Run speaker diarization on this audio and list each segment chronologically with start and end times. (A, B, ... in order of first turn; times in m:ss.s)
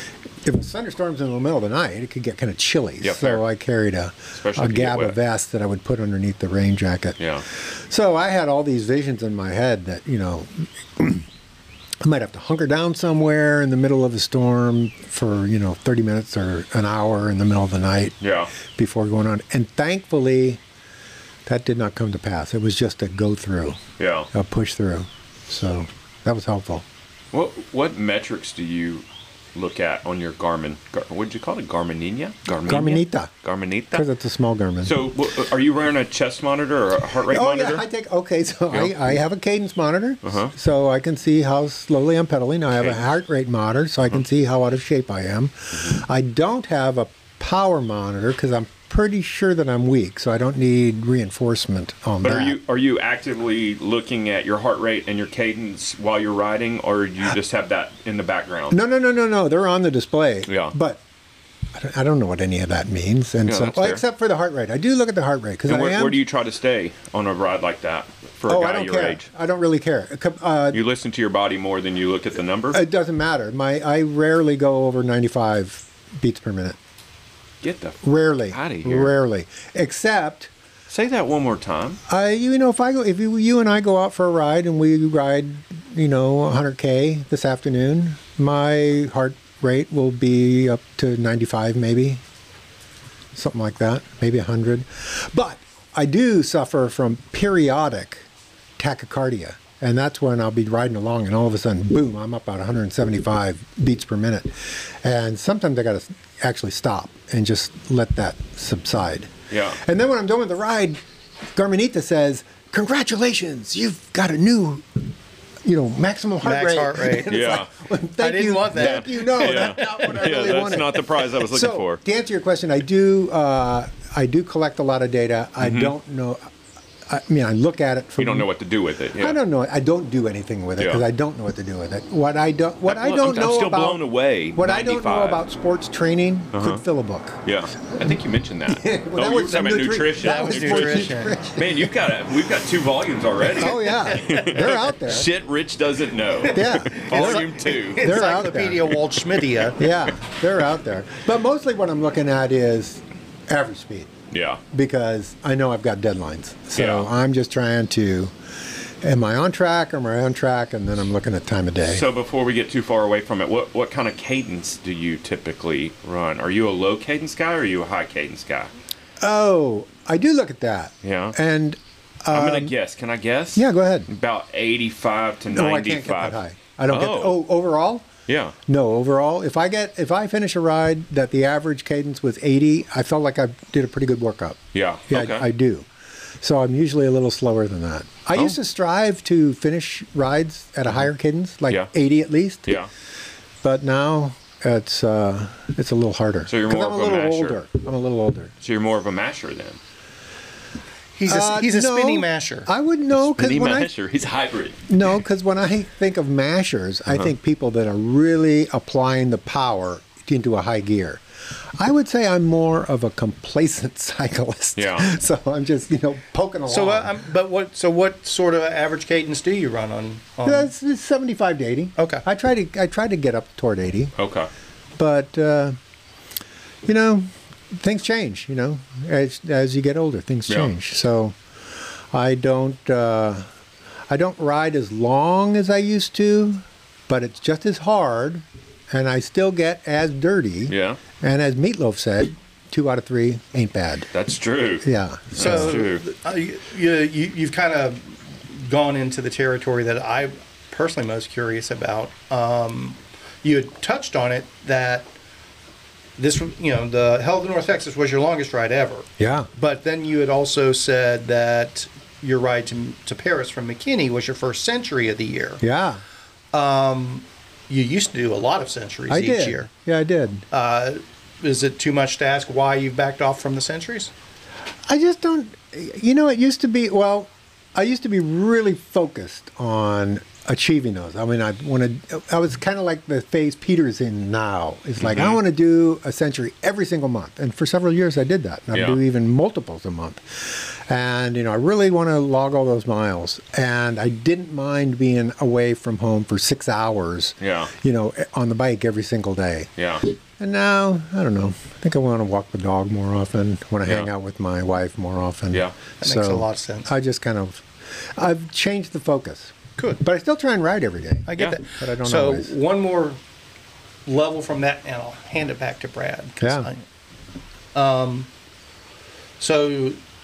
0:00.4-0:11.3 A
0:03.0-0:03.4 B
0:04.4-0:05.2 B
0:07.2-0:07.4 B
0:12.0-0:20.6 A
0:18.2-0:18.5 B
0:21.5-0:23.8 A
0:24.0-0:24.3 B
0:24.3-0:26.8 A
0:27.3-0:29.0 B
0:29.6-0:34.1 B
0:32.7-0:33.3 A
0:33.9-0:34.9 A
0:34.8-0:37.8 B
0:37.3-0:52.6 A
0:38.7-0:39.2 B
0:40.2-0:40.5 B
0:42.8-0:43.0 B
0:45.8-0:46.0 B
0:52.2-0:58.8 B
0:58.7-1:01.0 A
1:00.5-1:00.8 B
1:01.8-1:06.2 A
1:03.5-1:04.0 B
1:05.7-1:09.3 B
1:08.5-1:10.8 A
1:10.7-1:12.8 B
1:12.7-1:16.8 A
1:17.6-1:19.1 B
1:18.0-1:20.5 A
1:20.9-1:22.0 B
1:22.1-1:32.2 A
1:33.3-1:38.3 A
1:38.8-1:51.0 A
1:49.5-1:49.8 B
1:51.6-1:55.1 A
1:55.6-2:06.5 A
1:56.4-1:57.4 C
1:57.3-1:57.7 B
1:58.2-2:00.4 C
1:58.8-2:02.0 B
2:05.6-2:05.9 B
2:07.1-2:08.5 A
2:08.2-2:09.4 B
2:09.2-2:14.0 A
2:10.8-2:11.0 B
2:12.9-2:15.4 B
2:14.6-2:17.4 A
2:16.5-2:16.8 B
2:17.4-2:28.1 B
2:18.7-2:21.9 A
2:20.2-2:21.4 C
2:23.6-2:25.3 A
2:23.9-2:24.5 C
2:26.5-2:29.9 C
2:26.5-2:28.8 A
2:29.8-2:34.1 A
2:34.3-2:34.6 B
2:34.7-2:38.4 A
2:36.8-2:37.1 B
2:39.0-2:42.1 A
2:41.8-2:48.7 B
2:49.2-2:52.7 A
2:51.0-2:51.4 B
2:52.3-2:57.4 B
2:53.6-2:54.1 A
2:55.5-2:58.1 A
2:58.3-2:58.6 B
2:58.7-3:04.6 A
3:04.7-3:05.5 B
3:05.1-3:05.9 A
3:06.4-3:12.7 A
3:13.6-3:18.5 A
3:16.5-3:17.6 B
3:18.6-3:19.8 B
3:21.2-3:22.7 C
3:21.3-3:23.9 A
3:23.2-3:24.9 B
3:24.9-3:31.2 A
3:31.8-3:37.2 A
3:34.8-3:35.1 B
3:36.7-3:40.7 C
3:40.4-3:44.1 A
3:42.0-3:42.2 C
3:44.2-3:44.5 B
3:45.0-3:45.8 A
3:46.8-3:51.4 A
3:50.5-3:50.7 B
3:52.1-3:53.5 A
3:54.1-4:04.1 A
4:00.7-4:01.0 B
4:04.1-4:06.0 B
4:04.8-4:05.8 A
4:05.4-4:15.1 C
4:16.2-4:25.6 C
4:19.2-4:19.5 A
4:25.6-4:26.0 A
4:26.5-4:29.7 C
4:29.1-4:30.4 A
4:30.5-4:34.1 C
4:34.9-4:59.7 A
4:45.0-4:45.4 B
4:48.7-4:49.0 B
4:57.4-4:57.7 B
4:59.8-5:00.0 B
5:00.4-5:12.5 A
5:06.0-5:06.9 C
5:11.3-5:13.2 C
5:14.1-5:16.8 C
5:16.4-5:16.7 A
5:17.8-5:18.3 C
5:19.4-5:20.0 C